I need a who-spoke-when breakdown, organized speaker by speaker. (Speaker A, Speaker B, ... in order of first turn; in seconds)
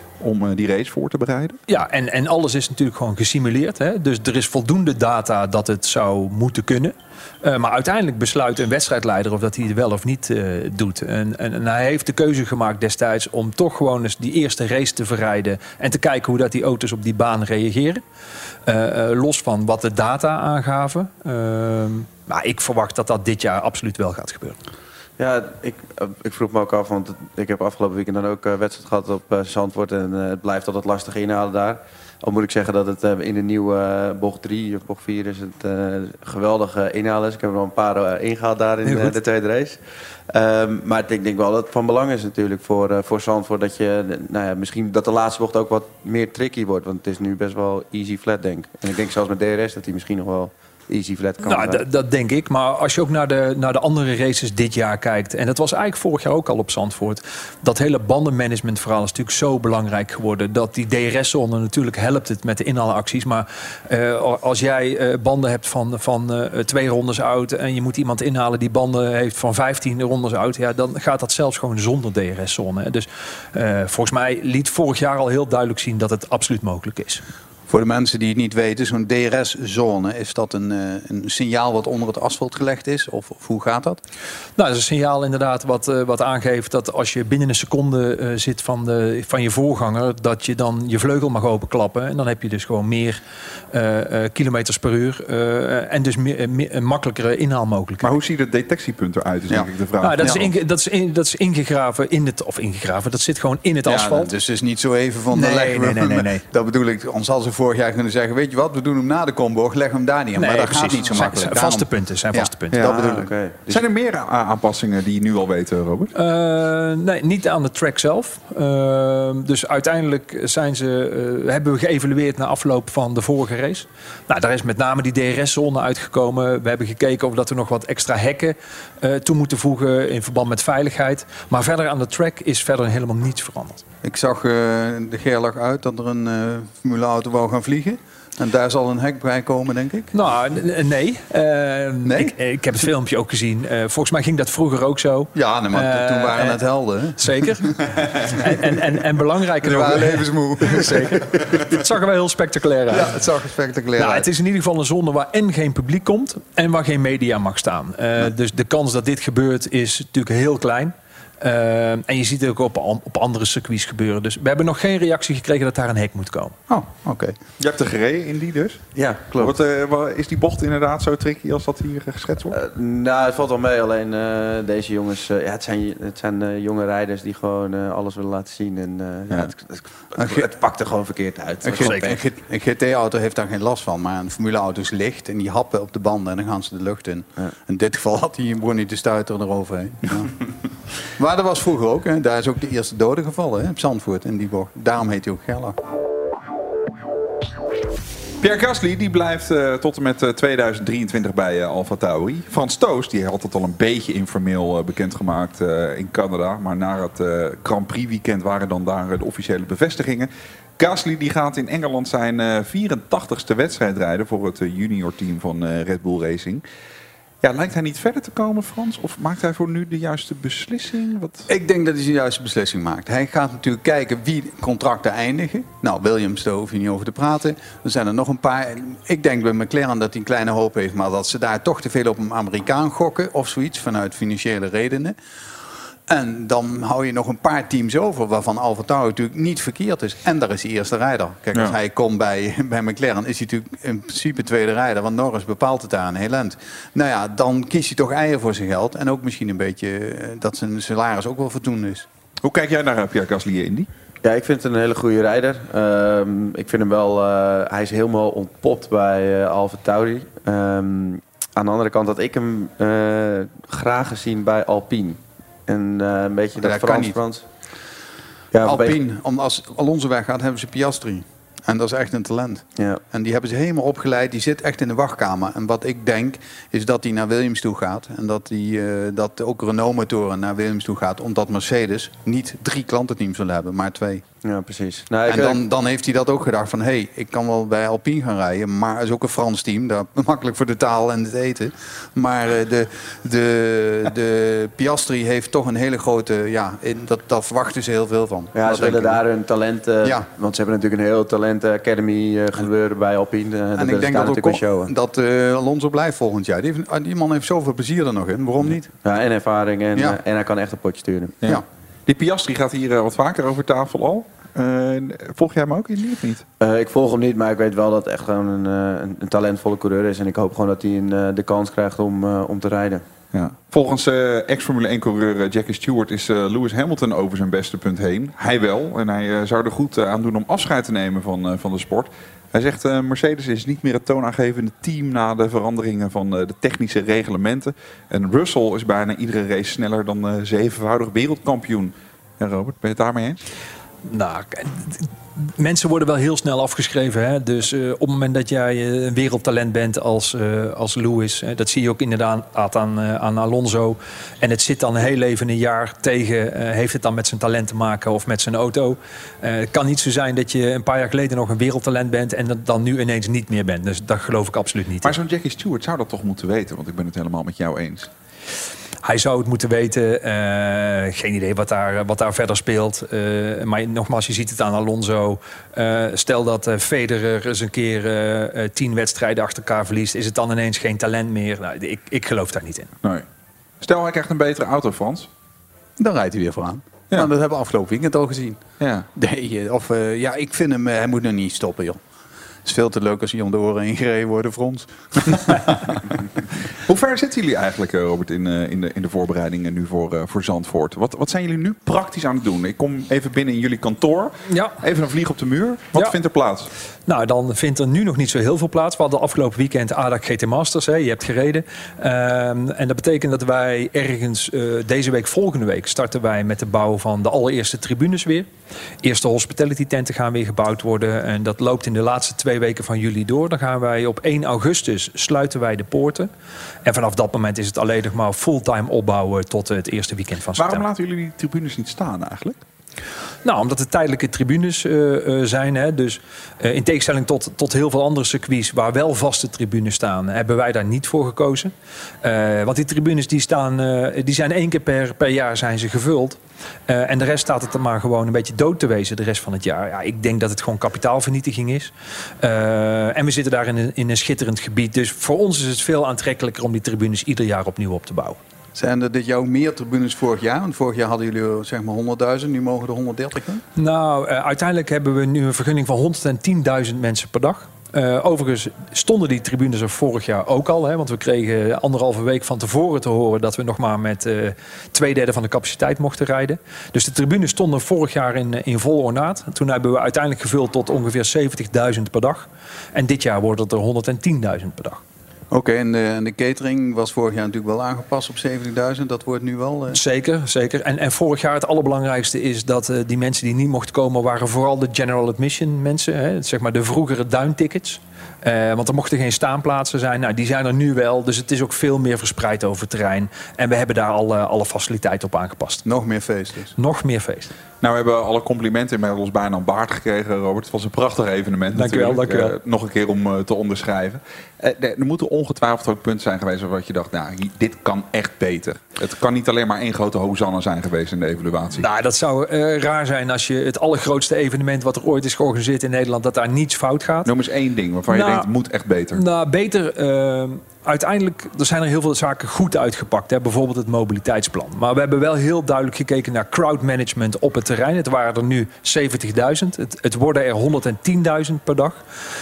Speaker A: 0.2-1.6, 98.0-100.4, 112.7-116.1, 167.6-168.8, 169.4-172.6, 198.4-216.6, 217.4-221.5, 252.4-253.9, 311.4-316.4, 323.3-343.4, 365.0-368.1, 383.8-385.3, 388.8-389.1, 396.9-406.7, 430.6-432.6, 507.8-521.9, 527.2-529.2
Speaker B: 1.7-18.0, 18.6-24.6, 38.9-39.1, 51.4-77.2, 84.6-93.2, 93.7-98.1, 100.0-104.3, 105.3-106.4, 110.3-112.8, 116.2-133.8, 140.1-146.6, 147.2-153.1, 154.0-166.6, 344.1-365.1, 369.0-382.9, 404.5-404.8, 407.1-418.5, 419.0-426.3, 426.8-430.8, 433.4-441.7, 442.2-458.4, 463.8-485.0, 489.9-505.8, 506.8-507.5, 511.7-512.5, 521.8-527.3, 528.1-528.5, 529.1-542.0
Speaker C: 25.2-39.8, 40.3-51.8, 112.8-113.8, 168.9-169.5, 172.5-182.2, 254.2-267.4, 268.5-269.0, 284.4-285.6, 298.5-304.9, 309.0-311.4, 316.6-323.0
Speaker D: 77.7-84.0, 103.8-113.3, 134.0-140.1, 142.0-142.3, 145.3-147.8, 149.6-151.6, 152.9-154.3, 166.7-167.4, 180.2-180.5, 181.6-190.3, 191.2-195.8, 221.5-235.2, 236.1-252.1, 266.6-267.2, 268.6-284.2, 285.2-299.2, 303.8-308.9, 386.0-388.6, 389.1-392.0, 392.6-395.9, 458.7-463.6, 485.5-490.0, 505.9-506.7